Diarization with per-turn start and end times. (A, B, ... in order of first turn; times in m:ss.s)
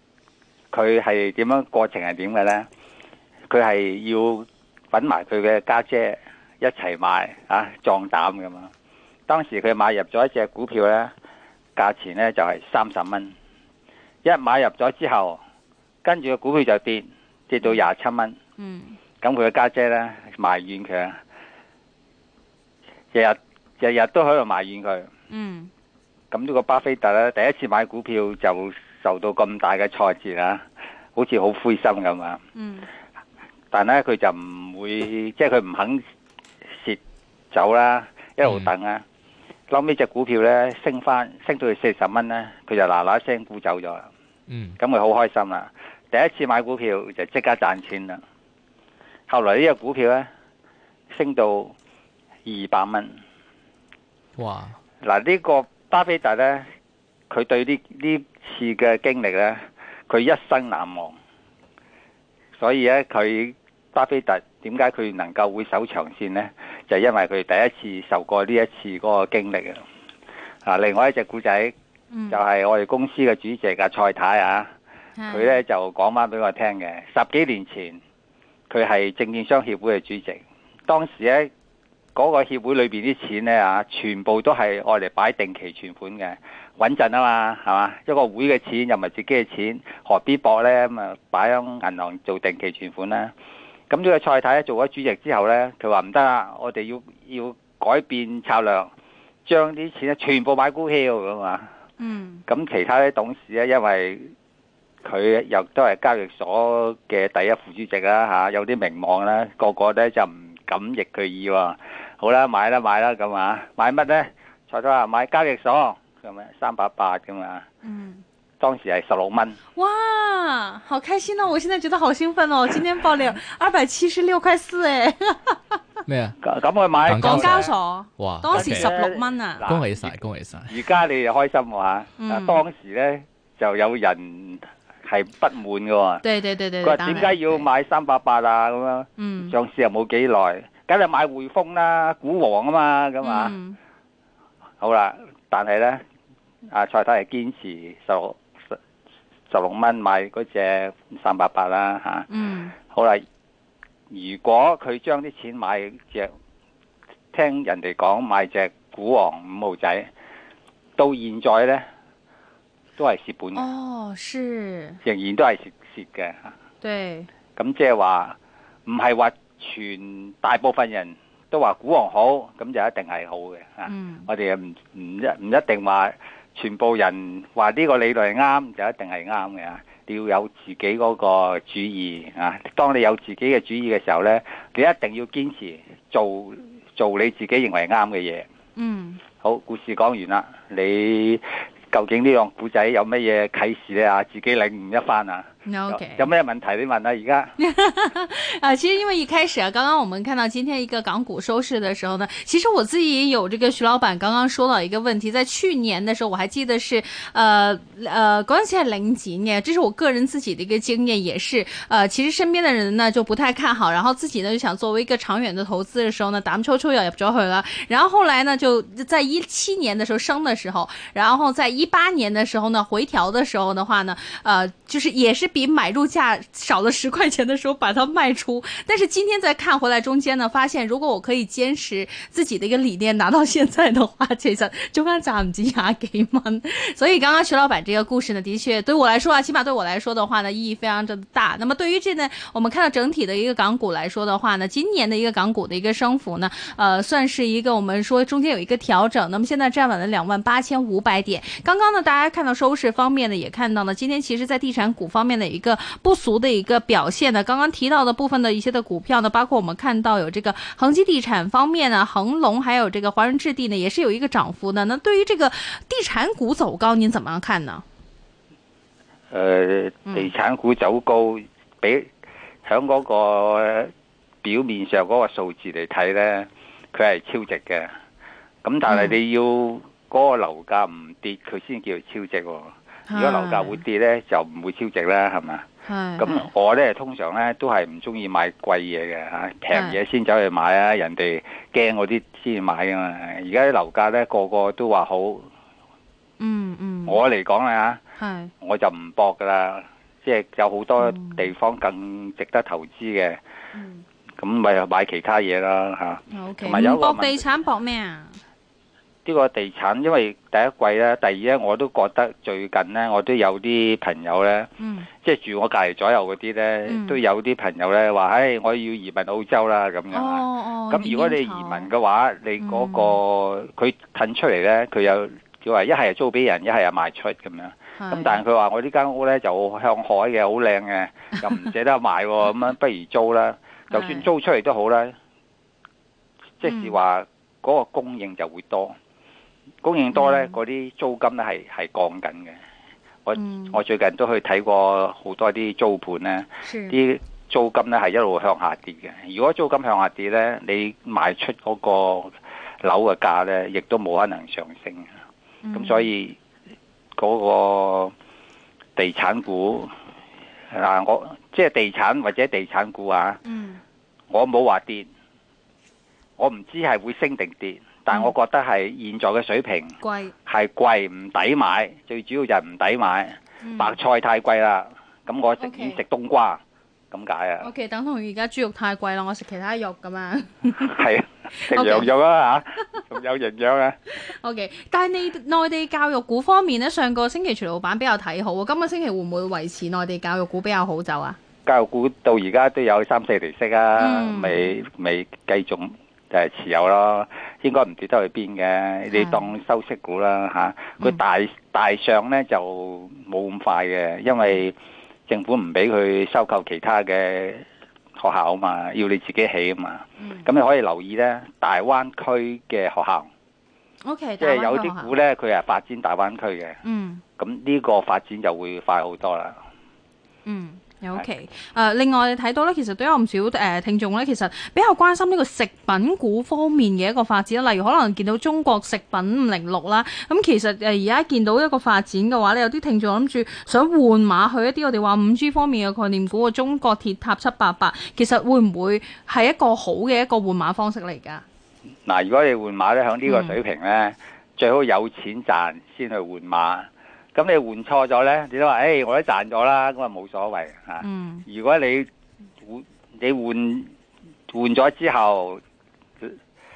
0:00.7-0:02.7 A
0:03.5-0:08.7 A
0:09.3-0:11.1 A
0:11.8-0:13.3 A
0:14.2-0:15.4 A
0:16.0-0:18.4 A
0:18.6-0:19.0 B
0:19.2-0:21.2 A
0:23.1-0:25.1 A
0:25.3-0:25.7 B
0:26.3-0:30.6 A
0:31.2-0:32.4 A
0:32.6-0:32.9 B
0:33.7-0:36.0 A
0:37.5-0:39.0 A
0:39.7-0:44.1 A
0:44.5-0:44.8 C
0:44.8-0:48.2 A
0:49.3-0:50.3 A
0:51.1-0:51.7 A
0:52.5-0:53.1 A
0:54.4-0:54.8 C
0:55.0-0:56.7 A
0:57.3-1:01.2 A
1:02.6-1:09.8 A
1:10.6-1:11.7 A
1:12.1-1:12.4 B
1:12.3-1:14.7 A
1:15.2-1:15.6 B
1:15.3-1:18.0 A
1:18.7-1:21.5 A
1:22.2-1:33.3 A
1:33.9-1:38.9 A
1:39.5-1:41.7 A
1:42.0-1:42.4 B
1:42.5-1:44.3 A
1:45.0-1:57.6 A
1:57.8-1:58.2 B
1:58.6-1:59.6 A
1:59.8-2:05.8 B
2:06.1-2:06.4 C
2:06.4-2:07.7 A
2:07.1-2:08.9 C
2:07.1-2:09.7 B
2:08.5-2:10.2 A
2:09.7-2:10.8 C
2:10.7-2:16.2 A
2:12.2-2:12.6 B
2:16.2-2:17.7 B
2:16.8-2:23.6 A
2:19.2-2:19.5 B
2:23.2-2:23.8 B
2:24.8-2:26.0 A
2:26.7-2:28.4 A
2:29.5-2:32.3 A
2:32.3-2:32.7 B
2:32.9-2:33.2 A
2:34.1-2:36.3 A
2:37.3-2:40.1 A
2:41.0-2:41.8 A
2:43.0-2:43.7 A
2:43.5-2:45.0 B
2:45.0-2:46.5 A
2:46.8-2:47.3 B
2:47.6-3:08.5 A
2:53.9-2:54.3 B
3:08.8-3:09.2 B
3:09.4-3:17.5 A
3:15.7-3:16.3 B
3:17.6-4:27.8 B
4:29.3-4:32.1 A
4:30.1-4:30.3 B
4:32.6-4:33.9 A
4:34.4-4:37.9 A
4:38.6-4:45.6 A
4:38.9-4:39.2 B
4:43.1-4:43.8 B
4:45.8-4:46.5 B
4:46.2-4:55.5 A
4:49.7-4:50.0 B
4:56.4-4:57.2 B
4:57.1-4:58.0 A
4:58.2-4:58.5 B
4:58.6-5:03.4 A
5:01.0-5:01.5 B
5:03.7-5:04.0 B
5:04.4-5:07.5 A
5:06.3-5:08.4 B
5:09.2-5:14.7 A
5:14.8-5:15.1 B
5:15.2-5:35.2 A
5:16.9-5:17.2 B
5:20.1-5:21.9 B
5:22.6-5:23.2 B
5:28.0-5:28.4 B
5:33.9-5:34.3 B
5:36.6-5:39.0 A
5:36.6-5:37.0 B
5:39.8-5:42.6 A
5:40.1-5:40.6 B
5:43.3-5:55.1 A
5:43.4-5:43.8 B
5:46.6-5:47.0 B
5:55.6-5:56.1 B
5:55.7-5:56.4 A
5:57.2-5:58.1 A
5:59.0-5:59.9 A
6:00.7-6:03.4 A
6:03.4-6:03.8 B
6:04.3-6:05.1 A
6:06.4-6:17.7 A
6:08.1-6:08.4 B
6:10.0-6:10.3 B
6:13.6-6:14.0 B
6:15.6-6:16.0 B
6:17.6-6:21.0 B
6:20.7-6:24.0 A
6:21.6-6:22.1 B
6:24.1-6:31.4 B
6:31.7-6:44.8 A
6:34.0-6:34.7 B
6:39.1-6:39.5 B
6:45.3-6:47.6 A
6:48.2-6:53.3 A
6:50.2-6:50.5 B
6:54.0-6:55.1 B
6:54.4-6:56.8 A
6:56.8-6:57.2 B
6:57.4-6:59.6 A
7:00.4-7:21.4 B
7:22.1-7:32.1 A
7:23.3-7:23.6 B
7:31.0-7:31.5 B
7:32.6-7:33.9 A
7:34.5-7:35.6 A